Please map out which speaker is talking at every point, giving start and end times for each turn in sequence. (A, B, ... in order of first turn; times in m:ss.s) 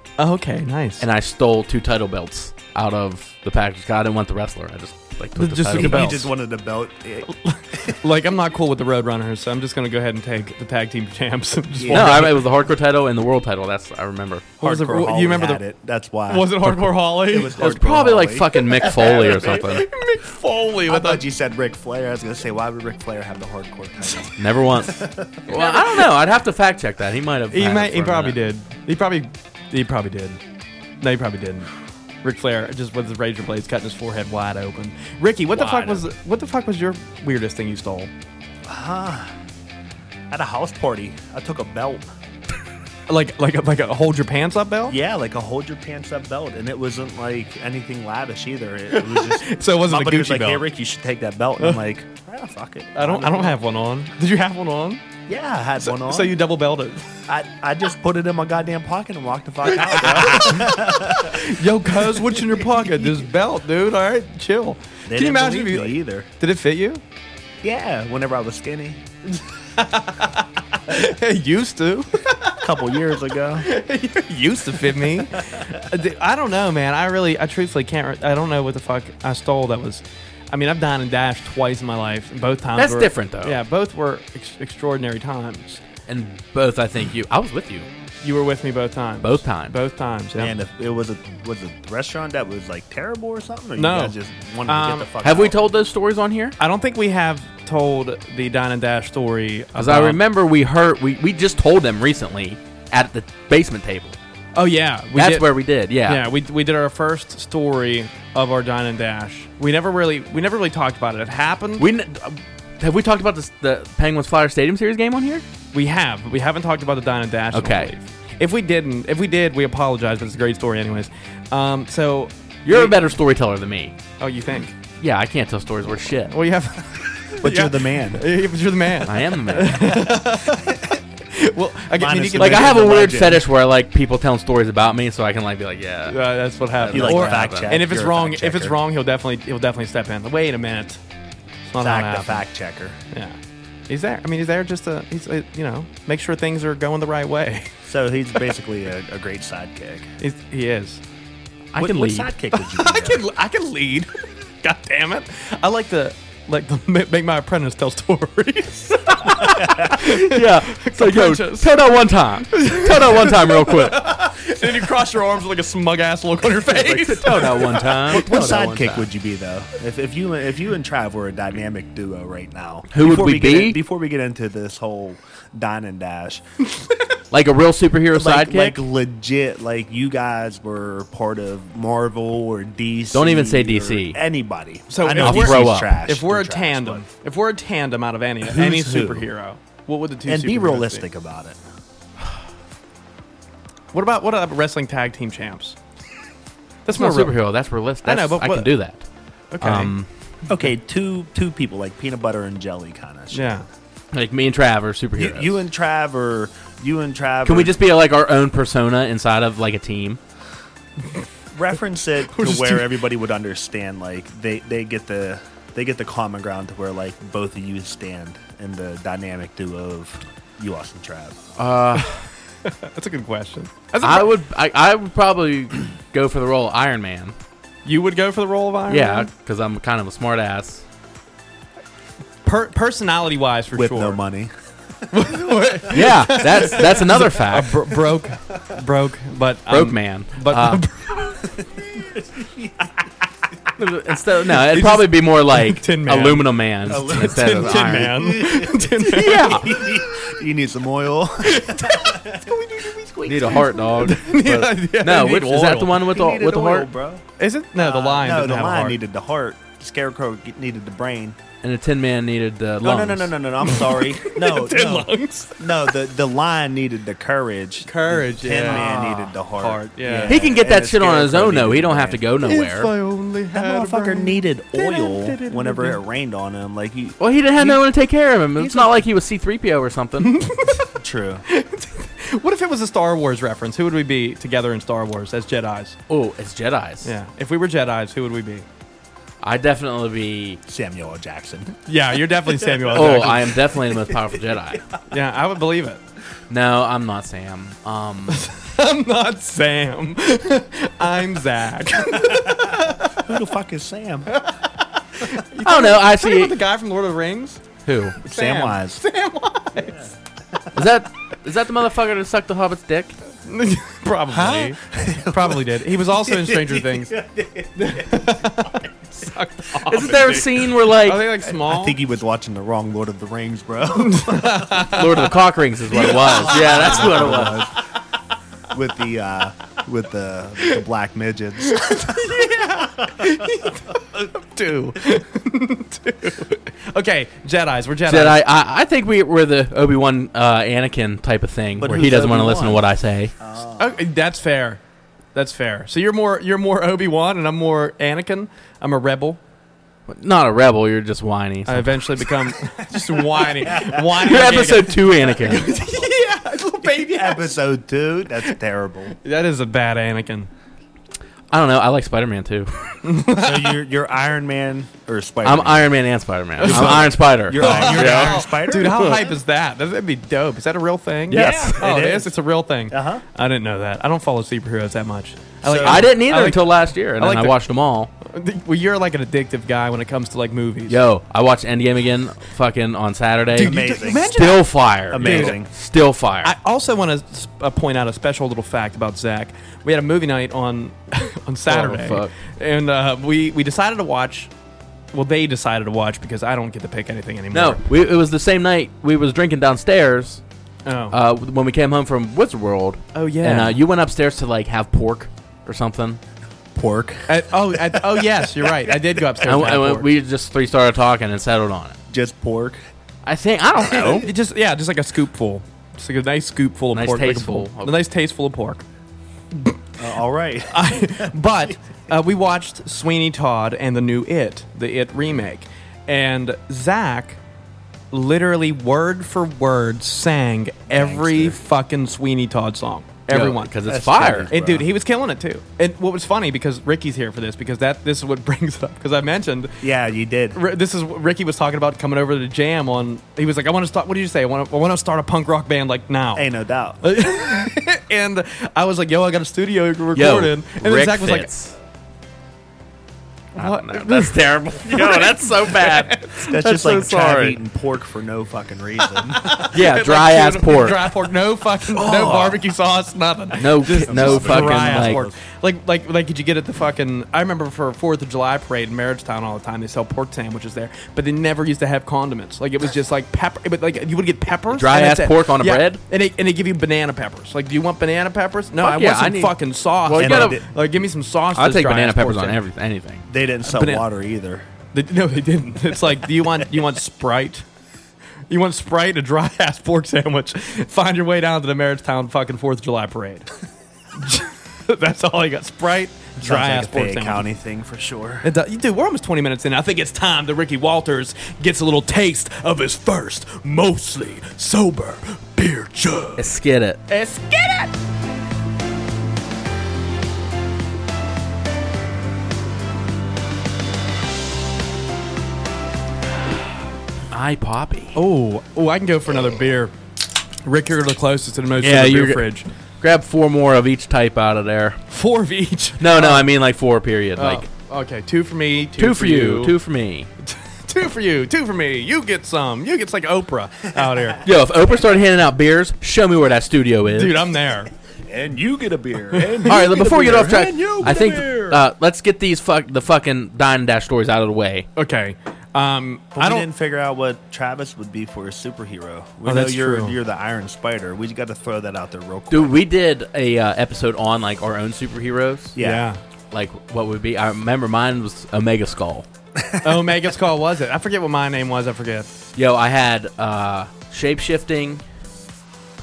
0:00.2-0:01.0 A
0:01.0-0:06.3 B
0:05.4-0:06.3 A
0:05.7-0:08.0 C
0:07.3-0:12.4 A
0:11.8-0:12.2 C
0:11.9-0:14.5 B
0:14.6-0:15.6 A
0:14.6-0:16.6 C
0:16.3-0:17.6 A
0:16.6-0:19.9 B
0:17.2-0:18.5 C
0:18.5-0:21.2 A
0:20.8-0:25.3 C
0:24.4-0:28.4 B
0:25.5-0:26.0 A
0:27.5-0:30.4 A
0:31.0-0:31.7 A
0:32.2-0:38.1 A
0:35.5-0:36.0 B
0:38.6-0:39.3 C
0:40.3-0:42.1 C
0:43.1-0:45.0 A
0:44.9-0:53.6 C
0:48.9-0:50.7 A
0:52.9-0:55.0 A
0:55.3-0:56.4 C
0:55.8-0:57.1 A
0:57.3-1:01.4 C
0:59.7-1:07.0 A
1:05.1-1:06.3 C
1:07.6-1:09.0 C
1:09.7-1:12.6 A
1:12.6-1:13.7 C
1:13.6-1:25.8 A
1:22.8-1:23.6 B
1:26.1-1:27.8 B
1:28.2-1:30.5 A
1:29.2-1:29.7 B
1:30.3-1:35.6 C
1:33.8-1:35.1 A
1:35.2-1:36.6 B
1:36.6-1:40.2 A
1:39.8-1:44.2 B
1:44.5-1:45.5 A
1:45.1-1:46.3 B
1:46.0-1:51.8 A
1:51.8-1:55.4 B
1:55.7-2:03.0 A
1:57.5-1:57.9 B
2:02.6-2:04.0 B
2:04.2-2:04.7 A
2:05.0-2:06.4 B
2:06.3-2:12.9 A
2:07.4-2:08.2 C
2:09.0-2:10.1 B
2:11.9-2:13.4 C
2:12.4-2:17.8 B
2:16.1-2:21.0 A
2:16.9-2:18.8 C
2:21.6-2:22.4 A
2:21.8-2:23.0 C
2:23.1-2:23.4 A
2:23.9-2:27.7 A
2:27.8-2:30.1 C
2:30.2-2:31.0 A
2:31.7-2:32.3 B
2:31.8-2:33.2 C
2:32.5-2:41.7 A
2:39.5-2:39.9 C
2:39.8-2:44.2 B
2:42.5-2:48.4 A
2:46.6-2:49.1 B
2:48.0-2:56.4 C
2:52.9-2:53.8 B
2:57.3-2:58.8 B
2:58.1-3:07.0 C
3:03.1-3:04.2 B
3:04.9-3:11.0 A
3:05.1-3:06.0 B
3:08.4-3:09.3 C
3:10.2-3:11.6 C
3:13.9-3:15.8 A
3:16.8-3:17.4 A
3:16.9-3:19.0 B
3:18.0-3:18.7 A
3:19.5-3:19.9 A
3:19.6-3:20.1 B
3:20.5-3:23.5 C
3:23.3-3:23.6 A
3:24.1-3:25.6 B
3:25.2-3:27.8 C
3:27.4-3:30.2 B
3:31.5-3:41.4 C
3:32.3-3:32.9 A
3:41.6-3:42.2 B
3:42.6-3:44.4 A
3:44.0-3:47.3 B
3:47.8-3:49.3 A
3:48.9-3:50.8 B
3:52.4-3:54.2 A
3:53.7-3:54.5 C
3:55.1-4:01.4 A
3:55.9-3:57.9 B
3:59.7-4:00.8 B
4:01.8-4:03.1 C
4:03.8-4:08.2 B
4:04.6-4:09.9 A
4:06.8-4:12.5 C
4:09.0-4:09.8 B
4:11.4-4:16.0 A
4:13.2-4:13.6 C
4:13.2-4:16.9 B
4:15.9-4:17.2 C
4:17.4-4:19.0 A
4:17.8-4:21.4 C
4:21.6-4:23.3 B
4:22.8-4:32.2 C
4:23.6-4:25.7 A
4:27.8-4:30.4 A
4:28.6-4:28.9 B
4:30.3-4:32.9 B
4:32.4-4:36.0 A
4:33.5-4:37.8 C
4:37.2-4:40.4 B
4:38.6-4:39.0 C
4:40.2-4:40.9 A
4:41.0-4:41.4 C
4:41.5-4:46.0 A
4:46.1-4:47.1 B
4:47.0-4:48.6 A
4:49.4-4:50.6 B
4:50.7-4:51.7 C
4:51.8-4:53.6 A
4:52.7-4:53.0 C
4:52.9-4:54.8 B
4:55.1-4:56.0 A
4:56.5-4:58.4 B
4:58.3-5:03.3 A
5:02.2-5:04.3 C
5:04.3-5:07.6 A
5:05.6-5:06.6 B
5:07.8-5:08.2 B
5:08.2-5:10.1 A
5:08.3-5:09.0 C
5:10.7-5:13.1 B
5:13.4-5:17.2 A
5:14.3-5:18.8 C
5:17.8-5:22.0 A
5:19.8-5:21.3 B
5:21.6-5:24.8 C
5:24.0-5:25.3 A
5:24.8-5:27.7 B
5:25.9-5:27.8 C
5:26.0-5:27.3 A
5:28.7-5:32.4 C
5:31.6-5:38.4 A
5:38.1-5:43.3 B
5:41.8-5:42.8 C
5:43.4-5:44.0 C
5:43.8-5:44.8 A
5:45.3-5:49.4 A
5:50.1-5:52.3 B
5:51.7-5:57.6 A
5:53.1-5:54.0 C
5:54.0-5:55.7 B
5:57.0-5:59.1 C
5:59.1-6:00.5 A
6:01.5-6:03.0 B
6:03.0-6:03.8 A
6:03.3-6:05.9 C
6:05.4-6:09.2 B
6:06.6-6:17.6 A
6:06.6-6:09.3 C
6:11.3-6:11.8 B
6:11.3-6:12.3 C
6:12.9-6:13.2 C
6:15.6-6:16.1 C
6:15.8-6:18.1 B
6:18.2-6:21.0 A
6:20.9-6:26.5 B
6:23.5-6:25.5 A
6:23.6-6:24.4 C
6:25.1-6:25.7 C
6:26.4-6:34.5 A
6:31.7-6:32.3 B
6:35.1-6:37.8 A
6:37.5-6:40.4 B
6:40.8-6:41.2 A
6:41.1-6:46.2 B
6:43.1-6:43.8 A
6:46.7-6:48.9 C
6:47.3-6:50.1 A
6:49.4-6:52.0 B
6:52.1-6:52.8 C
6:53.2-6:54.3 B
6:53.9-6:54.2 C
6:54.1-6:58.8 A
6:56.9-6:57.9 B
7:00.0-7:01.3 C
7:00.7-7:07.4 A
7:08.1-7:13.7 A
7:10.9-7:11.6 C
7:13.3-7:14.5 B
7:13.8-7:14.9 C
7:14.5-7:19.8 A
7:19.8-7:20.6 C
7:20.5-7:26.5 A
7:26.3-7:27.0 C
7:27.0-7:31.5 A
7:30.1-7:31.7 B
7:33.6-7:36.5 A
7:33.6-7:37.6 B
7:36.4-7:39.6 C
7:39.4-8:02.6 A
7:39.7-7:41.2 B
7:42.0-7:42.6 B
7:43.6-7:45.2 B
7:43.8-7:45.4 C
7:54.7-7:56.0 B
7:58.8-8:00.6 B
8:00.2-8:00.6 C
8:01.5-8:03.2 B
8:03.3-8:04.7 C
8:03.6-8:04.0 A
8:04.9-8:07.6 A
8:08.5-8:13.5 A
8:14.2-8:17.4 A
8:16.4-8:18.5 C
8:18.4-8:26.5 A
8:26.4-8:27.0 B
8:27.1-8:27.9 A
8:37.3-8:38.2 B
8:38.1-8:39.9 A
8:40.6-8:42.7 A
8:41.8-8:45.0 B
8:45.1-8:46.5 A
8:46.0-8:47.6 B
8:47.4-8:49.8 A
8:49.0-8:50.3 B
8:50.4-8:54.4 A
8:54.4-8:57.4 B
8:57.1-8:57.9 A
8:58.2-9:01.8 C
8:59.3-8:59.7 A
8:59.6-9:04.9 B
9:05.0-9:06.7 A
9:06.4-9:12.8 C
9:09.4-9:10.2 A
9:12.5-9:15.8 B
9:15.8-9:16.1 C
9:15.8-9:16.2 A
9:16.5-9:19.3 B
9:19.6-9:19.9 C
9:19.8-9:22.3 A
9:22.6-9:25.0 B